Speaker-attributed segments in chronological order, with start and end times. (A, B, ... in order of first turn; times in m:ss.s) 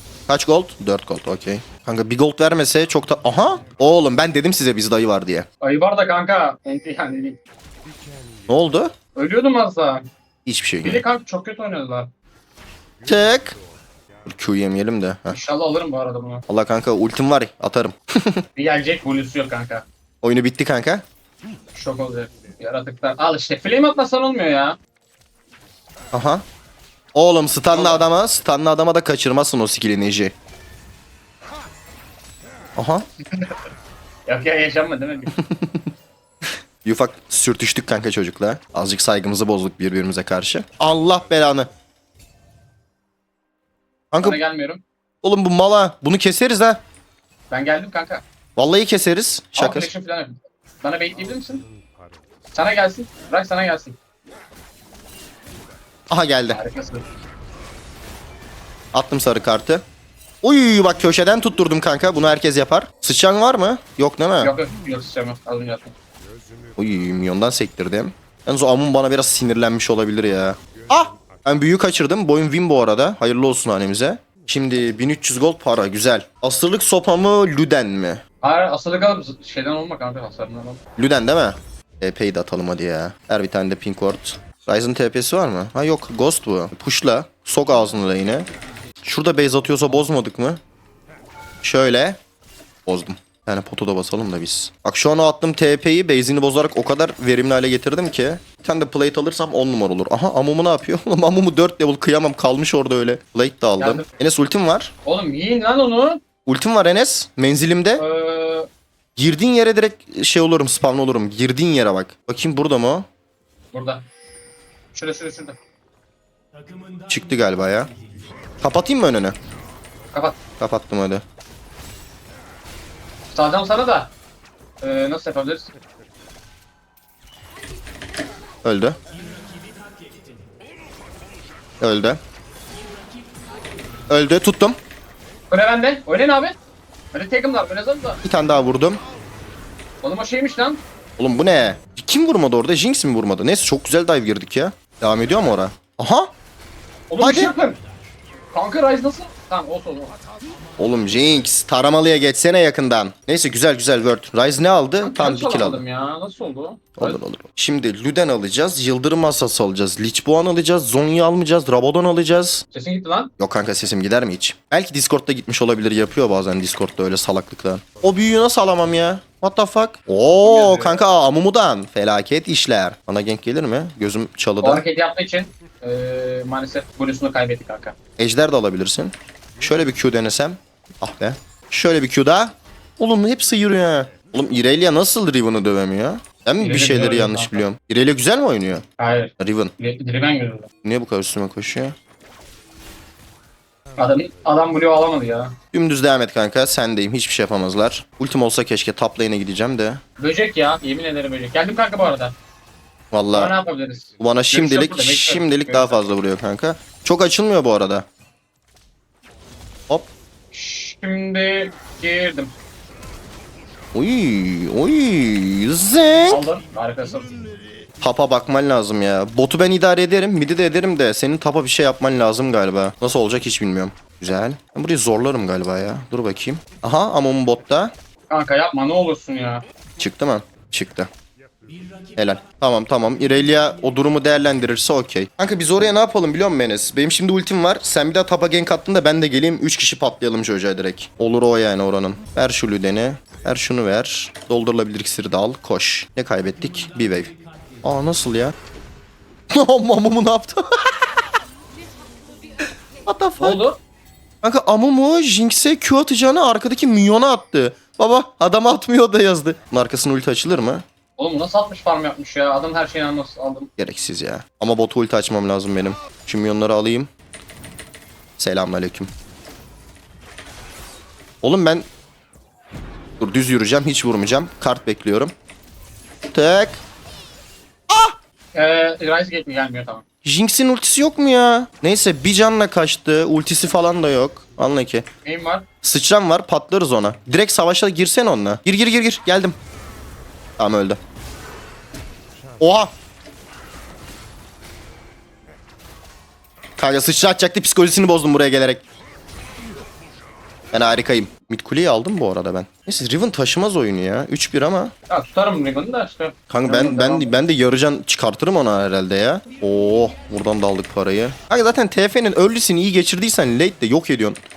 0:00.3-0:05.5 A
0:05.6-0:07.4 B
0:08.5-0:08.9 A
0:09.2-0:10.0 B
0:10.4-0:11.0 A
0:10.8-0:12.1 B
0:13.0-0:13.6 A
0:14.2-0:15.4 A
0:15.3-0:16.4 B
0:16.5-0:18.4 A
0:18.6-0:19.8 B
0:20.2-0:21.0 A
0:21.7-0:24.8 B
0:26.1-0:26.4 A
0:27.1-0:30.3 A
0:27.7-0:28.0 B
0:32.8-0:33.0 A
0:34.2-0:35.3 B
0:35.4-0:35.9 A
0:36.8-0:41.7 A
0:44.1-0:44.4 A
0:44.2-0:44.8 B
0:45.2-0:46.8 A
0:47.5-0:48.2 B
0:48.6-0:49.9 A
0:49.6-0:51.6 B
0:52.5-0:54.0 B
0:56.1-0:56.6 A
0:56.5-0:57.0 B
0:58.9-0:59.8 A
1:00.4-1:04.5 A
1:04.4-1:05.9 B
1:06.8-1:18.2 A
1:18.4-1:20.8 B
1:21.0-1:28.5 A
1:29.0-1:30.6 A
1:31.6-1:32.2 A
1:32.8-1:44.9 A
1:43.8-1:44.1 B
1:45.0-1:46.2 B
1:46.4-1:48.0 A
1:48.0-1:48.7 B
1:49.2-1:53.0 A
1:53.7-1:54.0 B
1:54.9-1:55.6 B
1:57.1-1:57.9 A
1:58.6-1:59.3 A
2:00.6-2:01.2 A
2:03.3-2:04.1 B
2:04.8-2:05.7 B
2:08.6-2:09.0 A
2:11.8-2:12.2 A
2:14.1-2:14.8 A
2:15.5-2:16.6 B
2:17.1-2:18.2 B
2:18.2-2:19.0 A
2:20.0-2:20.8 B
2:21.2-2:26.3 A
2:27.1-2:27.8 B
2:27.2-2:27.5 A
2:28.5-2:30.2 B
2:30.8-2:35.8 A
2:35.0-2:37.2 B
2:37.0-2:42.6 A
2:42.7-2:43.3 B
2:43.4-2:54.8 A
2:50.4-2:51.0 B
2:54.6-2:57.9 B
2:58.2-3:08.8 A
3:06.6-3:07.6 B
3:09.0-3:10.7 B
3:09.4-3:09.7 A
3:10.8-3:11.9 A
3:14.0-3:15.6 B
3:15.7-3:20.0 A
3:20.2-3:22.3 B
3:23.1-3:23.5 A
3:23.3-3:26.0 B
3:24.2-3:28.0 A
3:30.5-3:32.5 B
3:33.9-3:36.4 A
3:36.3-3:37.6 B
3:38.0-3:47.9 A
3:48.3-3:49.6 B
3:50.0-3:51.1 A
3:52.2-4:07.3 A
4:07.8-4:08.5 A
4:09.5-4:10.9 A
4:13.0-4:13.6 A
4:13.4-4:13.8 B
4:14.4-4:20.8 A
4:21.2-4:23.7 B
4:23.8-4:27.1 A
4:28.4-4:29.1 A
4:31.4-4:31.8 A
4:33.2-4:35.3 A
4:36.3-4:36.8 A
4:37.9-4:38.2 A
4:38.5-4:40.0 B
4:40.2-4:45.0 A
4:45.2-4:45.6 B
4:45.8-4:49.5 A
4:50.6-4:51.0 A
4:52.6-4:52.9 A
4:56.8-4:58.8 A
5:00.7-5:04.9 A
5:05.1-5:07.3 B
5:06.5-5:14.4 A